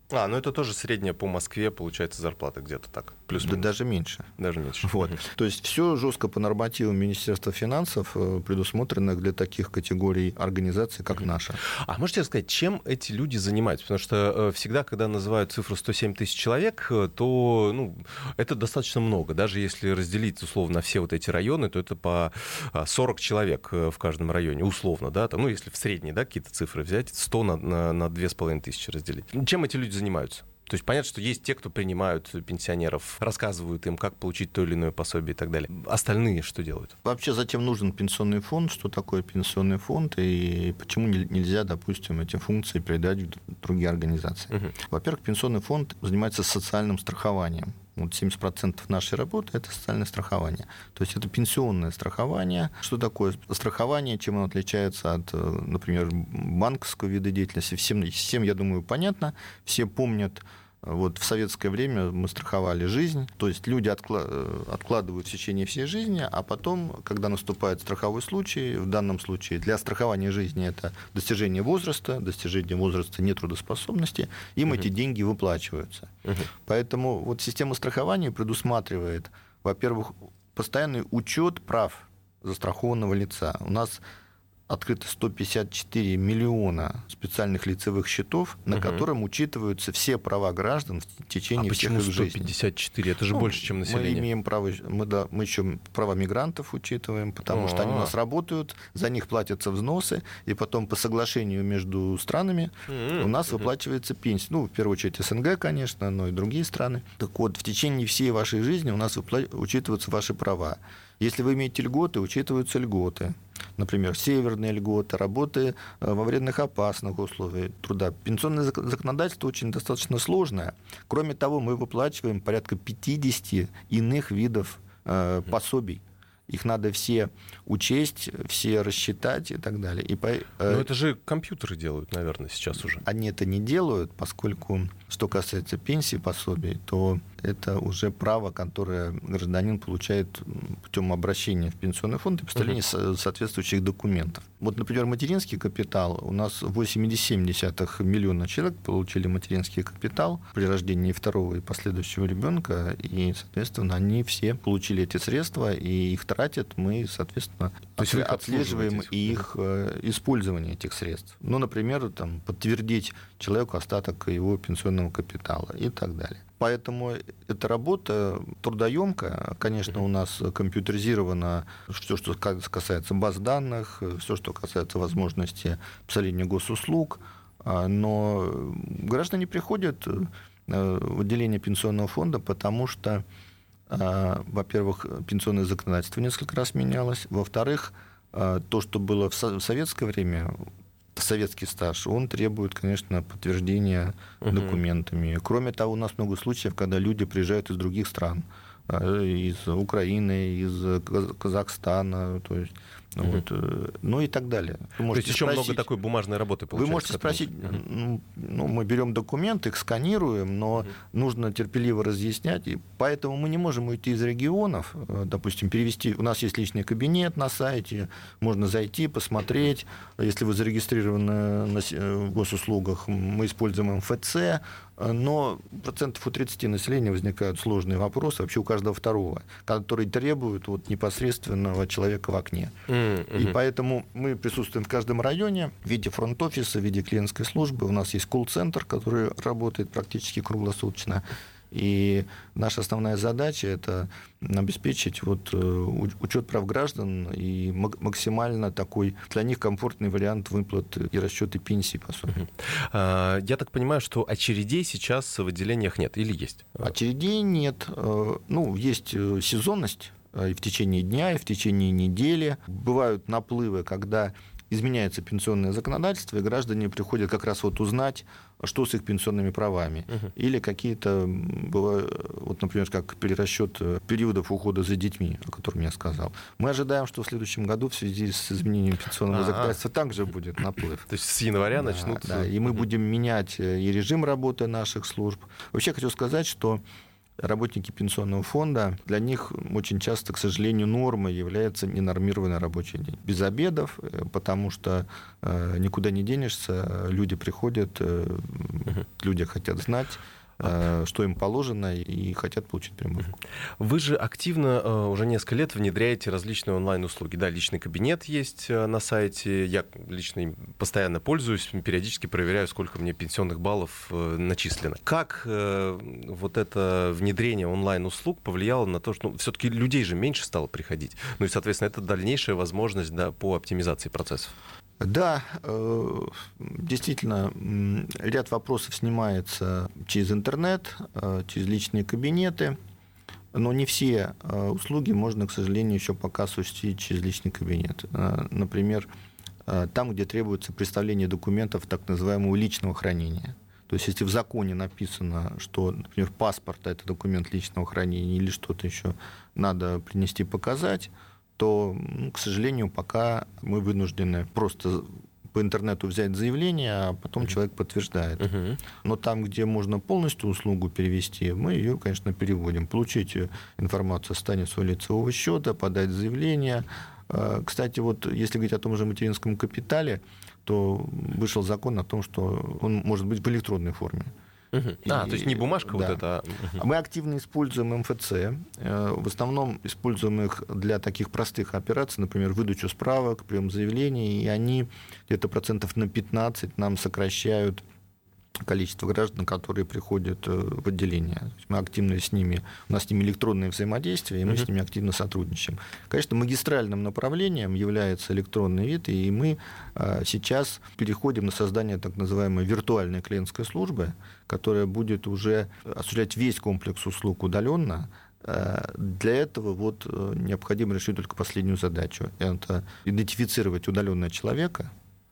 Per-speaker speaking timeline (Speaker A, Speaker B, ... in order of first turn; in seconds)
Speaker A: 0.1-3.7, 4.4-5.2, 11.1-36.9, 88.7-89.0, 91.6-94.3, 97.5-98.1, 102.9-103.3, 130.7-133.0, 158.0-159.4, 194.4-194.8, 205.1-207.8, 232.9-233.6, 252.6-256.9, 279.3-279.8, 281.1-282.7, 303.8-324.5, 358.4-358.8, 374.7-376.8
Speaker B: 3.4-4.3, 4.8-11.6, 37.0-76.1, 76.6-84.0, 84.7-92.5, 93.3-130.9, 133.0-183.2, 183.9-190.6, 191.2-205.9, 206.7-232.7, 233.3-252.5, 256.8-281.1, 281.8-286.8, 287.4-303.3, 325.0-332.8, 333.5-339.1, 339.7-374.3, 375.0-376.2, 376.7-387.8, 388.6-414.9